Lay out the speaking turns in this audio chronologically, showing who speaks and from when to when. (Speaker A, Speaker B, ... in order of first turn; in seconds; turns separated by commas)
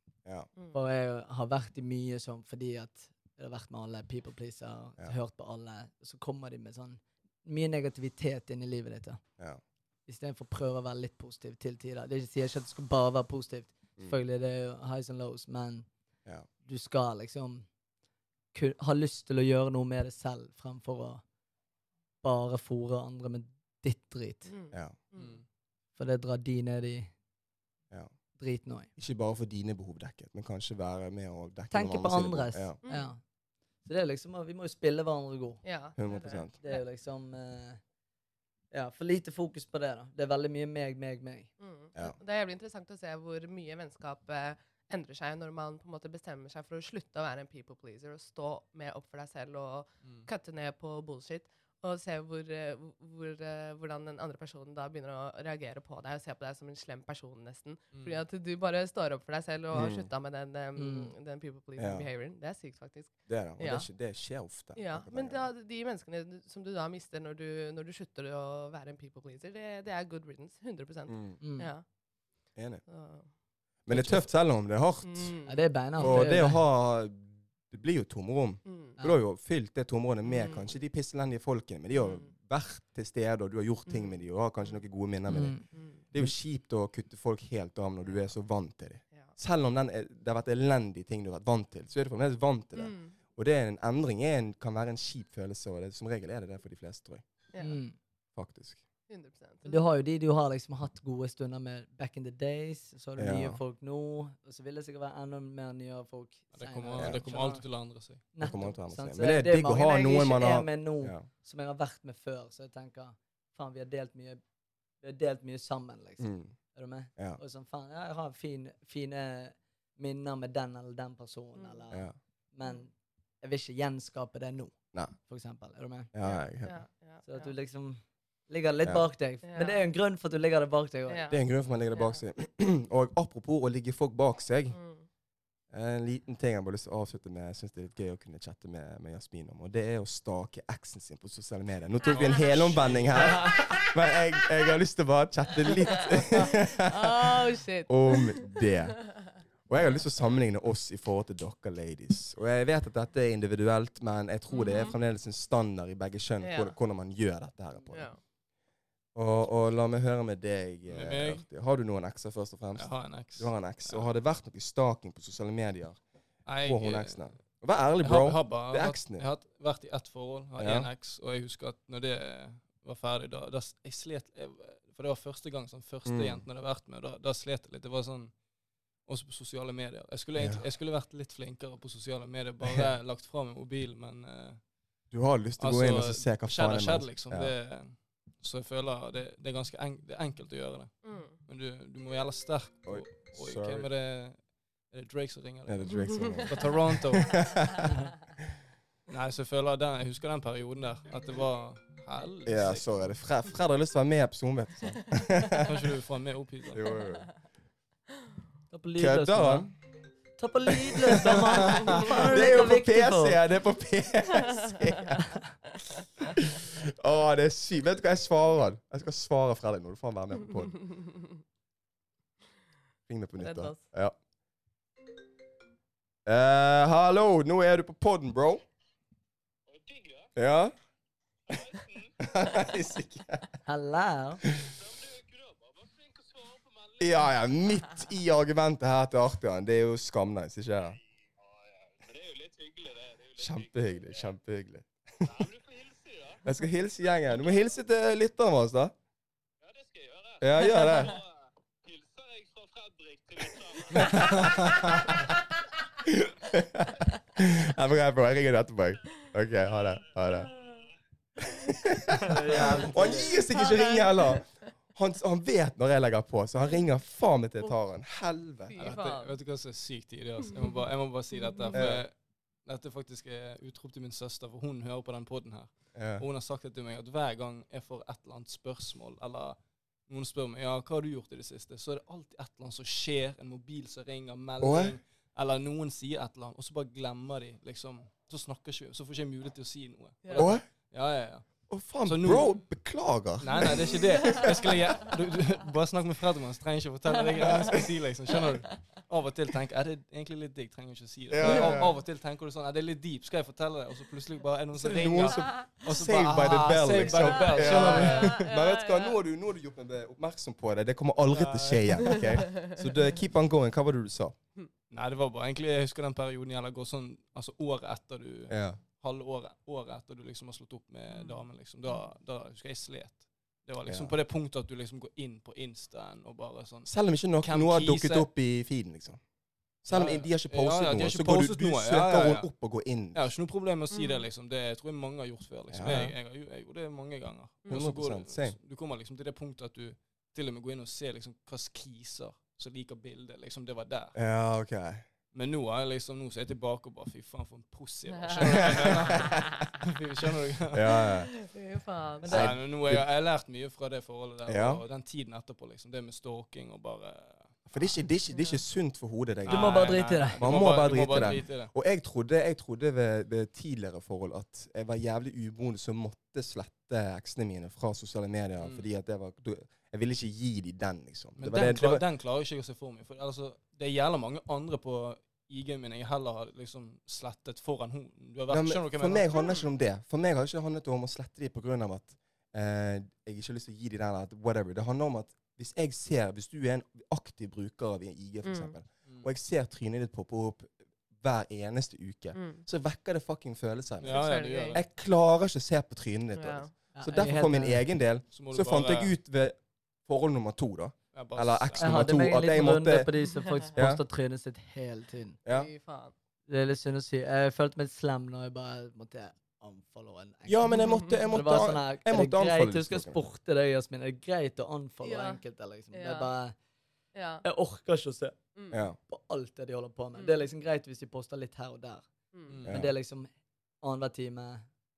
Speaker A: 0.7-9.2, Speaker A: 10.1-15.9, Speaker A: 16.6-17.7, Speaker A: 18.5-21.2, Speaker A: 22.2-24.5, Speaker B: 24.5-25.4, Speaker C: 25.2-25.4, Speaker A: 25.9-27.1, Speaker A: 28.4-28.9, Speaker D: 29.0-32.8, Speaker A: 31.7-33.2, Speaker B: 32.8-33.1, Speaker A: 33.8-35.6, Speaker B: 35.6-36.8, Speaker D: 36.0-36.5, Speaker A: 36.6-37.8, Speaker A: 38.7-41.5, Speaker B: 41.6-63.9, Speaker C: 57.9-58.2, Speaker D: 59.7-60.1, Speaker A: 60.8-61.1, Speaker D: 61.8-62.0, Speaker D: 63.3-65.4, Speaker B: 64.7-71.8, Speaker D: 71.1-71.4, Speaker A: 71.4-71.7, Speaker D: 72.5-72.8, Speaker B: 72.9-73.3, Speaker D: 73.8-75.4, Speaker B: 75.0-76.3, Speaker A: 75.4-76.6, Speaker D: 76.0-97.2, Speaker B: 78.7-79.0, Speaker B: 80.2-80.7, Speaker B: 81.9-82.3, Speaker B: 83.9-84.8, Speaker A: 85.3-85.6, Speaker B: 85.7-86.0, Speaker B: 92.7-93.1, Speaker B: 97.5-97.8, Speaker A: 97.6-97.9, Speaker D: 98.3-98.8, Speaker B: 99.1-99.8, Speaker A: 99.6-107.6, Speaker D: 103.2-103.6, Speaker C: 106.5-108.2, Speaker A: 108.3-114.4, Speaker D: 108.4-111.3, Speaker A: 115.0-126.1, Speaker D: 116.2-116.5, Speaker B: 121.5-121.8, Speaker D: 126.1-126.8, Speaker B: 126.2-127.5, Speaker A: 127.2-131.2, Speaker B: 129.4-129.8, Speaker B: 131.1-131.4, Speaker D: 131.3-134.8, Speaker B: 131.9-132.2, Speaker B: 134.7-135.1, Speaker D: 135.7-149.1, Speaker B: 142.1-142.4, Speaker C: 142.1-143.8, Speaker B: 143.2-143.9, Speaker B: 145.8-149.2, Speaker D: 149.7-158.1, Speaker B: 154.5-155.0, Speaker B: 156.4-156.7, Speaker B: 157.9-158.2, Speaker D: 159.1-166.0, Speaker C: 160.9-161.4, Speaker C: 162.7-164.0, Speaker C: 166.4-167.3, Speaker D: 166.6-169.2, Speaker C: 168.0-178.3, Speaker D: 170.6-170.9, Speaker D: 176.0-176.4, Speaker C: 179.1-184.6, Speaker D: 180.4-180.6, Speaker D: 182.6-182.9, Speaker D: 185.1-187.5, Speaker C: 185.6-197.9, Speaker B: 191.0-191.3, Speaker D: 192.8-193.9, Speaker D: 195.7-197.9, Speaker B: 195.9-196.7, Speaker C: 199.1-202.9, Speaker D: 202.4-205.7, Speaker C: 205.6-207.0, Speaker D: 206.7-207.3, Speaker A: 208.7-209.7, Speaker D: 209.0-209.7, Speaker A: 210.4-213.4, Speaker D: 210.7-215.3, Speaker B: 214.8-215.2, Speaker D: 216.3-220.8, Speaker B: 220.9-221.2, Speaker D: 223.1-224.2, Speaker B: 223.4-223.8, Speaker D: 226.2-228.6, Speaker D: 230.3-230.7, Speaker D: 232.2-233.5, Speaker A: 233.7-234.4, Speaker D: 234.5-234.8, Speaker D: 237.0-241.0, Speaker D: 243.3-245.5, Speaker D: 246.4-248.9, Speaker C: 249.8-250.3, Speaker D: 250.4-251.2, Speaker B: 250.8-251.1, Speaker B: 253.8-254.3, Speaker C: 253.9-254.7, Speaker D: 253.9-255.3, Speaker D: 256.0-260.5, Speaker D: 261.4-268.8, Speaker A: 262.2-263.4, Speaker B: 263.2-264.4, Speaker B: 268.7-269.3, Speaker C: 268.8-291.4, Speaker B: 271.3-271.8, Speaker D: 271.7-272.0, Speaker D: 275.9-276.2, Speaker D: 284.6-285.0, Speaker B: 290.2-290.5, Speaker D: 290.3-290.6, Speaker D: 291.7-295.0, Speaker C: 292.1-292.6, Speaker C: 293.4-308.4, Speaker B: 297.3-297.8, Speaker D: 297.4-297.9, Speaker D: 301.3-302.0, Speaker D: 304.7-314.3, Speaker B: 307.1-309.2, Speaker C: 311.3-312.3, Speaker B: 312.2-312.7, Speaker C: 314.9-326.9, Speaker D: 318.5-318.8, Speaker B: 321.1-322.0, Speaker D: 323.9-324.1, Speaker D: 326.9-329.2, Speaker C: 327.4-328.3, Speaker D: 329.8-333.2, Speaker C: 329.9-332.5, Speaker C: 333.1-344.1, Speaker B: 333.9-334.3, Speaker D: 335.7-336.1, Speaker D: 337.7-338.6, Speaker D: 344.1-345.0, Speaker C: 345.3-351.1, Speaker B: 348.1-349.4, Speaker D: 348.4-349.5, Speaker D: 350.7-351.3, Speaker B: 351.4-352.4, Speaker A: 352.2-352.5, Speaker D: 352.3-353.1, Speaker C: 352.3-357.9, Speaker D: 354.5-354.8, Speaker D: 357.7-372.0, Speaker C: 359.4-361.7, Speaker A: 359.5-360.4, Speaker C: 368.6-368.9, Speaker C: 371.4-379.4, Speaker D: 378.5-403.1, Speaker B: 379.3-379.6, Speaker B: 388.4-388.7, Speaker B: 392.3-392.6, Speaker C: 394.0-394.8, Speaker B: 394.1-394.8, Speaker B: 396.3-396.7, Speaker A: 396.9-397.8, Speaker C: 398.3-399.1, Speaker C: 401.1-402.1, Speaker A: 401.8-405.4, Speaker B: 403.3-403.7, Speaker D: 403.7-404.0, Speaker B: 405.5-406.1, Speaker A: 406.5-416.5, Speaker D: 410.5-413.2, Speaker B: 410.7-411.1, Speaker B: 415.0-415.4, Speaker B: 415.9-416.3, Speaker B: 417.1-417.4, Speaker A: 417.4-418.4, Speaker B: 418.6-418.8, Speaker D: 418.7-419.0, Speaker A: 419.0-422.1, Speaker B: 420.1-420.4, Speaker B: 422.3-422.6, Speaker C: 422.5-422.8, Speaker D: 422.7-422.9, Speaker A: 422.7-423.3, Speaker A: 423.8-424.6